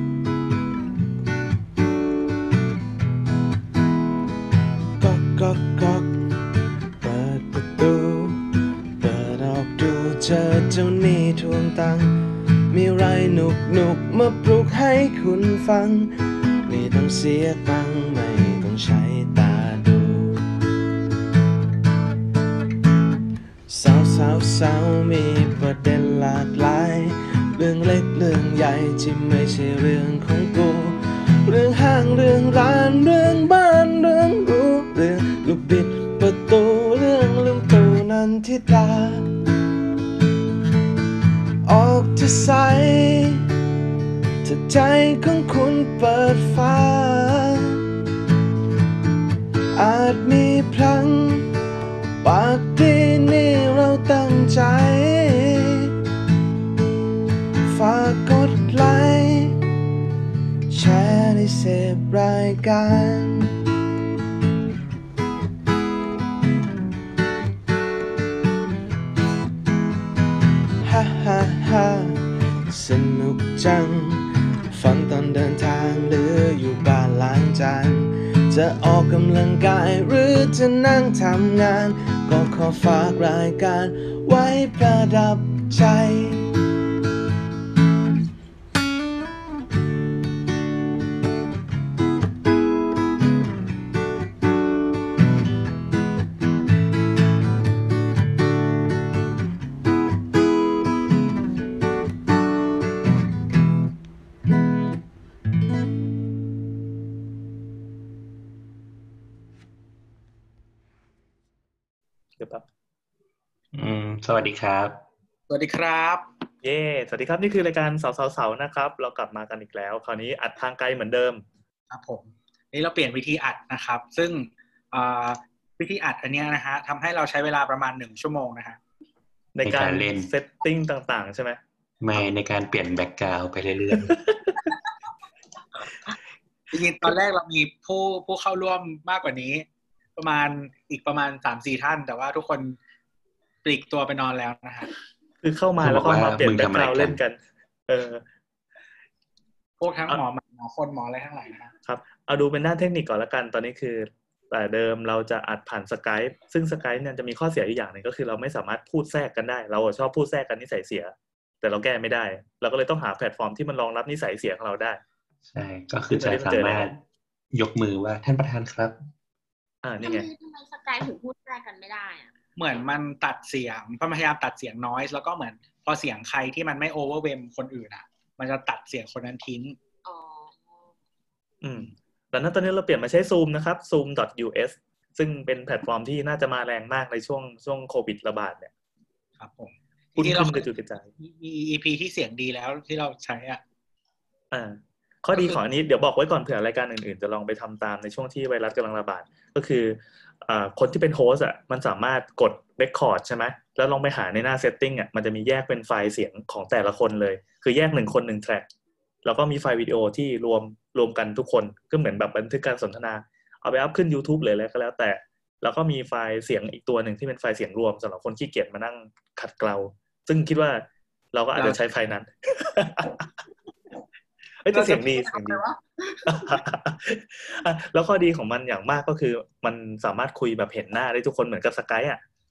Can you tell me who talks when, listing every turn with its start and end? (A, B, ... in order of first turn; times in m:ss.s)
0:05.0-0:06.2 A
0:07.0-0:08.5 A
0:09.0-0:12.1 A
0:12.7-0:16.1 A
0:16.6-0:20.4 A
0:23.7-0:39.3 A
0:41.6-0:43.4 A
0:44.4-0:47.6 A
0:49.8-0:51.5 A
0:52.2-0:55.9 A
0:57.7-0:59.6 A
1:00.7-1:03.5 A
1:10.8-1:26.4 A
1:52.4-1:52.6 B
1:53.7-1:55.0 C
1:55.5-1:56.3 D
1:56.6-2:01.4 B
2:01.9-2:08.8 D
2:09.5-2:11.6 B
2:09.6-2:10.3 C
2:12.0-2:14.1 C
2:14.1-2:14.5 B
2:16.7-2:19.6 D
2:20.2-2:22.8 D
2:23.6-2:24.9 D
2:25.4-2:27.4 B
2:25.8-2:27.2 C
2:27.9-2:28.2 B
2:29.8-2:31.7 D
2:31.8-2:45.0 B
2:45.5-2:47.0 C
2:46.1-2:46.9 B
2:47.5-2:49.0 C
2:49.8-2:50.3 B
2:50.0-2:52.3 E
2:52.6-2:59.8 D
3:00.0-3:00.9 E
3:01.6-3:08.7 B
3:09.4-3:10.7 D
3:10.2-3:11.1 B
3:11.2-3:13.6 D
3:14.5-3:28.7 B
3:15.3-3:15.6 D
3:29.2-3:43.3 B
3:44.6-3:45.6 B
3:44.7-3:46.6 D
3:46.2-3:52.2 B